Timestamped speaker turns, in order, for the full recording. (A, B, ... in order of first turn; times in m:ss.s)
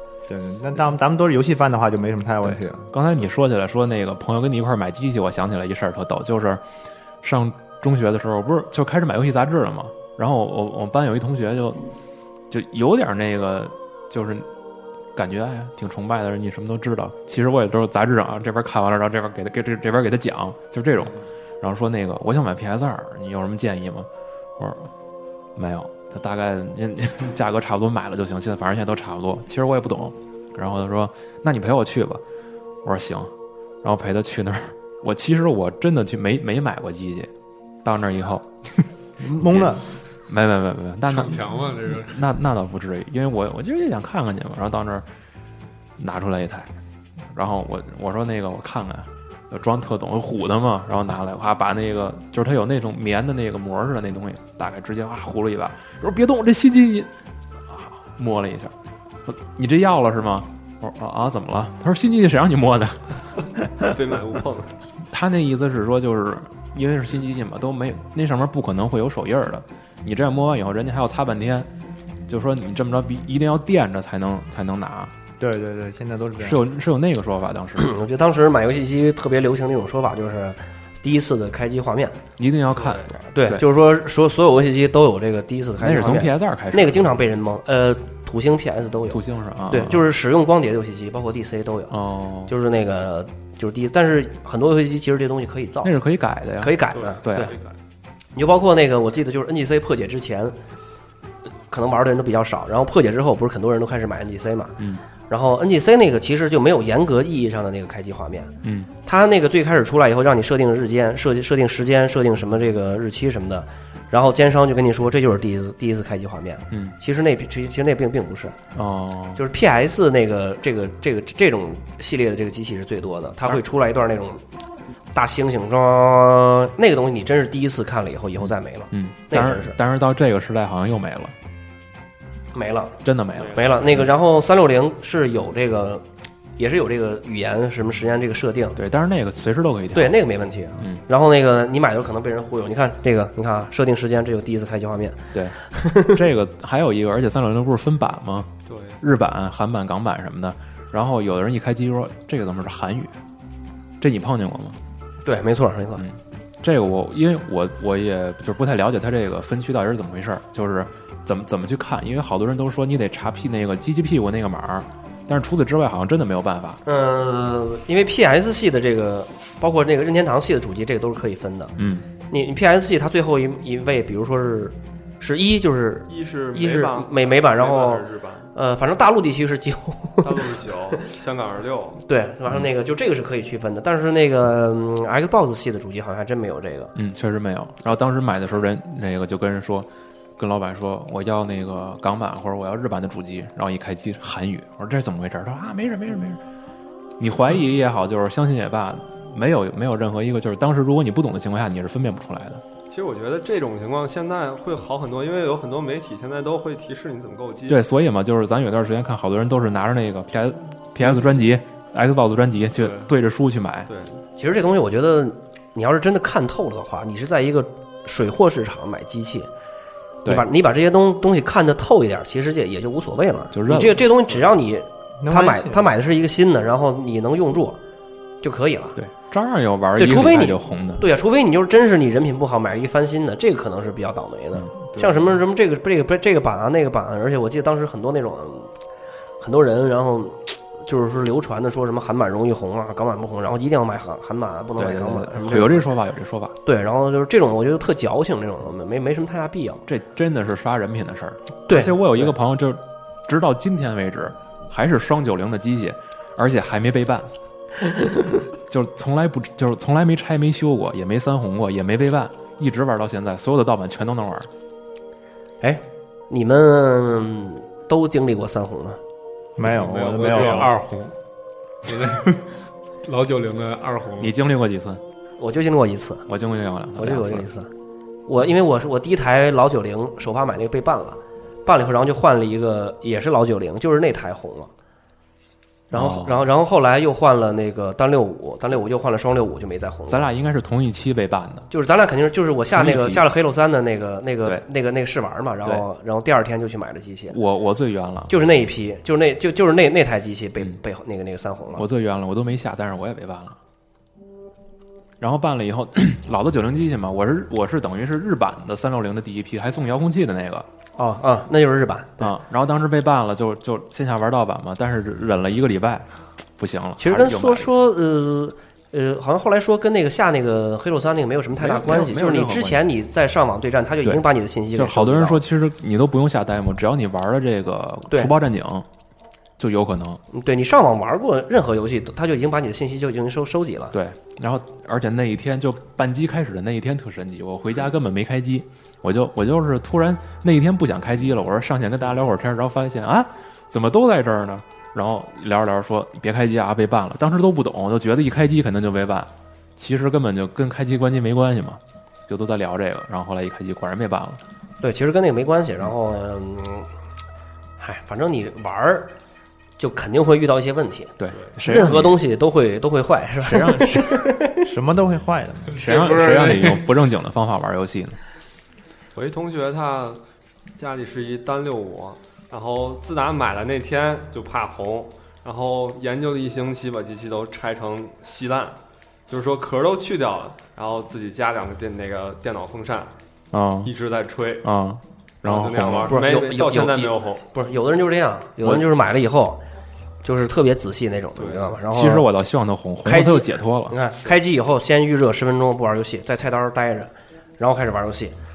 0:00.3-0:02.9 A
0:02.4-0:06.6 B
0:07.2-0:11.9 B
0:12.5-0:14.5 B
0:15.1-0:24.9 B
0:25.6-0:32.2 B
0:32.8-0:37.3 B
0:37.8-0:45.0 B
0:39.2-0:39.8 A
0:41.0-0:42.3 C
0:46.0-0:46.7 B
0:47.3-0:57.1 B
0:57.7-0:58.7 B
0:59.2-1:03.2 B
1:03.8-1:04.8 D
1:05.0-1:11.7 B
1:12.3-1:15.1 B
1:15.4-1:16.6 A
1:16.4-1:17.9 B
1:17.8-1:22.2 E
1:22.4-1:23.6 B
1:22.7-1:23.1 D
1:23.3-1:31.9 E
1:25.8-1:27.1 B
1:29.1-1:30.1 B
1:31.9-1:32.5 B
1:32.5-1:35.9 E
1:35.8-1:37.5 B
1:36.6-1:37.5 E
1:36.9-1:37.7 D
1:38.3-1:40.6 E
1:41.7-1:48.5 E
1:44.8-1:45.0 B
1:48.6-1:48.9 B
1:49.0-1:58.6 E
1:56.7-1:57.0 B
1:58.7-1:59.4 B
1:59.4-2:04.4 E
2:05.1-2:09.8 E
2:08.9-2:11.3 B
2:12.5-2:16.0 E
2:13.0-2:14.0 B
2:13.4-2:14.0 D
2:16.6-2:18.8 E
2:18.8-2:20.2 B
2:19.9-2:26.2 E
2:25.3-2:33.2 B
2:28.7-2:29.0 D
2:34.0-2:34.8 B
2:35.2-2:36.0 E
2:36.0-2:46.8 B
2:46.8-2:51.8 E
2:51.8-2:52.1 B
2:52.3-3:00.6 E
2:56.1-2:58.5 D
3:00.2-3:02.0 D
3:02.1-3:06.9 E
3:06.9-3:16.4 B
3:17.2-3:22.6 B
3:22.9-3:27.8 D
3:27.7-3:33.9 B
3:32.7-3:33.1 D
3:33.9-3:34.2 D
3:34.4-3:39.5 E
3:40.2-3:47.8 E
3:43.5-3:44.1 B
3:45.2-3:45.9 A
3:48.4-3:49.0 E
3:49.0-3:51.0 B
3:50.0-3:58.7 E
3:54.6-3:55.2 B
3:59.4-4:05.9 E
4:04.8-4:06.6 B
4:06.6-4:09.8 E
4:09.9-4:17.3 B
4:11.7-4:12.3 E
4:18.7-4:24.5 B
4:25.6-4:29.0 E
4:29.6-4:30.7 A
4:29.6-4:31.1 C
4:31.8-4:34.3 C
4:34.2-4:35.0 B
4:35.4-4:36.2 E
4:36.3-4:37.5 B
4:37.0-4:37.7 E
4:38.3-4:44.7 E
4:45.9-4:50.3 E
4:45.9-4:46.4 B
4:50.1-4:51.7 B
4:51.7-4:57.4 E
4:52.7-4:53.2 B
4:57.3-4:58.3 B
4:58.3-5:01.8 E
5:01.7-5:03.6 B
5:05.2-5:10.7 B
5:11.0-5:12.3 E
5:12.2-5:17.7 B
5:17.0-5:25.4 E
5:21.6-5:22.8 B
5:24.0-5:28.9 B
5:29.6-5:30.2 B
5:30.3-5:33.9 E
5:33.9-5:54.4 B
5:54.8-5:56.9 E
5:57.8-5:59.1 E
5:59.8-6:04.6 E
6:01.2-6:02.2 B
6:03.4-6:04.1 B
6:04.6-6:05.8 A
6:05.7-6:06.9 C
6:05.8-6:08.2 B
6:09.1-6:10.2 D
6:10.8-6:23.1 D
6:23.5-6:23.9 B
6:23.8-6:24.7 D
6:24.6-6:26.3 B
6:25.4-6:27.4 D
6:26.1-6:29.6 E
6:30.2-6:32.3 E
6:31.4-6:31.8 D
6:31.9-6:34.0 B
6:33.0-6:38.3 E